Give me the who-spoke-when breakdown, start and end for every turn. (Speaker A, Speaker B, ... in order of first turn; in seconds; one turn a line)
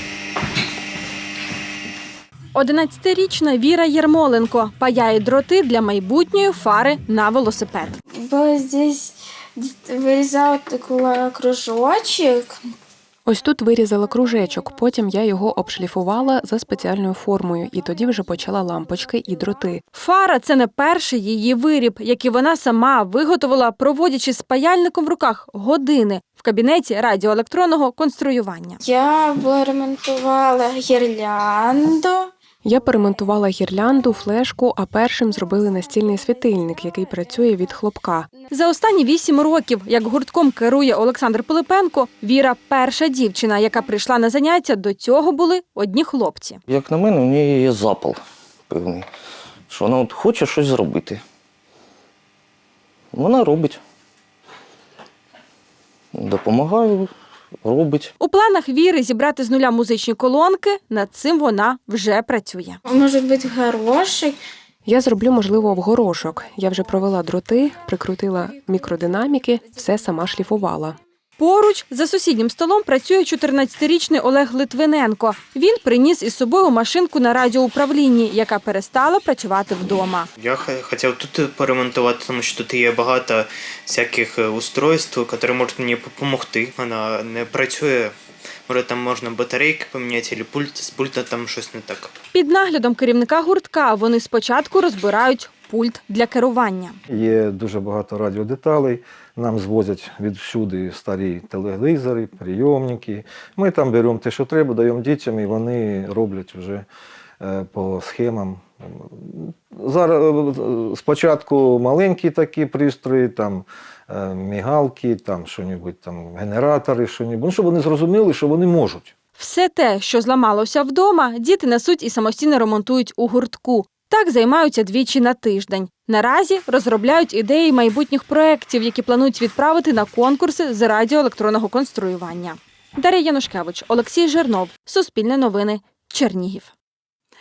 Speaker A: 2.5-8.0
Speaker B: 8.2-12.6
Speaker C: 13.3-19.8
Speaker A: 19.9-28.8
Speaker B: 28.8-32.3
Speaker C: 32.6-38.3
Speaker A: 38.5-46.6
Speaker D: 46.7-49.1
Speaker D: 49.7-51.2
Speaker D: 53.1-53.8
Speaker D: 56.1-57.1
Speaker D: 57.6-58.1
Speaker A: 58.2-62.8
Speaker B: 62.9-64.4
Speaker C: 64.9-71.0
Speaker A: 71.4-80.3
Speaker E: 80.4-88.1
Speaker E: 88.7-92.1
Speaker A: 92.3-97.0
Speaker F: 97.1-106.9
Speaker F: 107.4-119.1
Speaker A: 119.4-136.7